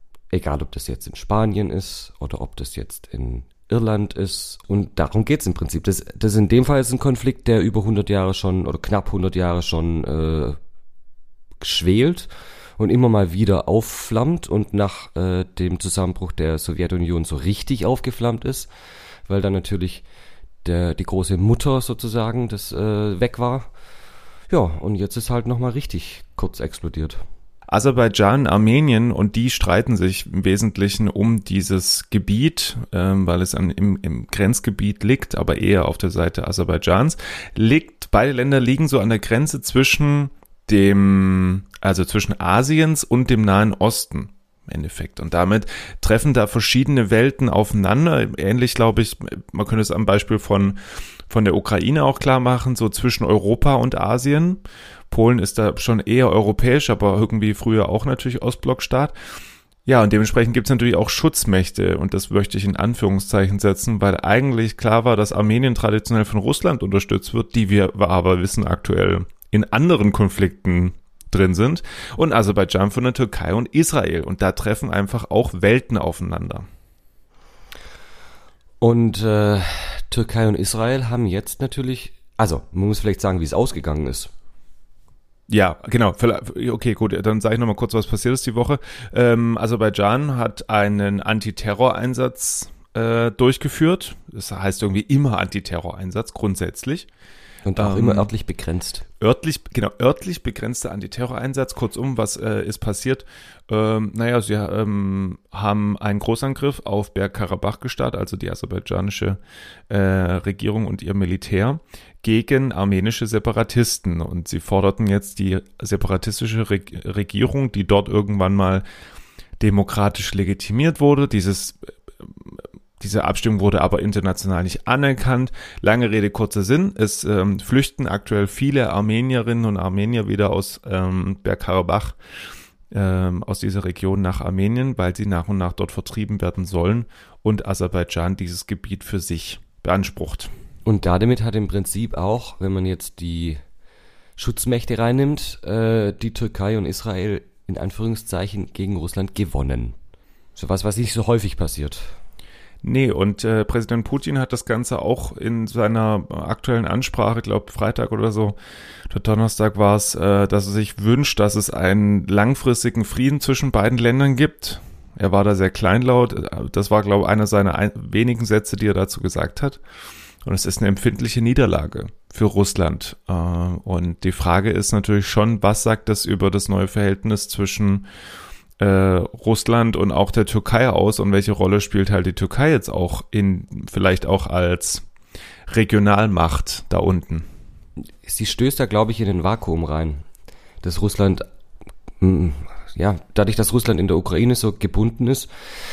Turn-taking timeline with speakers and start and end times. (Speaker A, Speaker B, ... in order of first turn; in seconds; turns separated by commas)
Speaker A: 0.3-10.6, Speaker A: 11.6-18.7, Speaker A: 19.3-20.0, Speaker A: 20.6-23.7, Speaker A: 24.5-27.2, Speaker B: 27.7-59.1, Speaker B: 59.9-76.7, Speaker A: 78.8-84.3, Speaker B: 85.5-97.1, Speaker A: 97.6-99.0, Speaker B: 97.8-98.3, Speaker B: 99.2-118.8, Speaker B: 119.6-132.2, Speaker B: 132.9-140.5, Speaker A: 140.8-143.6, Speaker A: 144.4-149.9, Speaker A: 150.6-152.1, Speaker B: 152.8-158.6, Speaker B: 159.1-169.8, Speaker B: 170.4-178.1, Speaker B: 178.8-185.1, Speaker B: 185.7-187.5, Speaker A: 188.2-190.2, Speaker A: 190.8-191.4, Speaker A: 192.2-195.5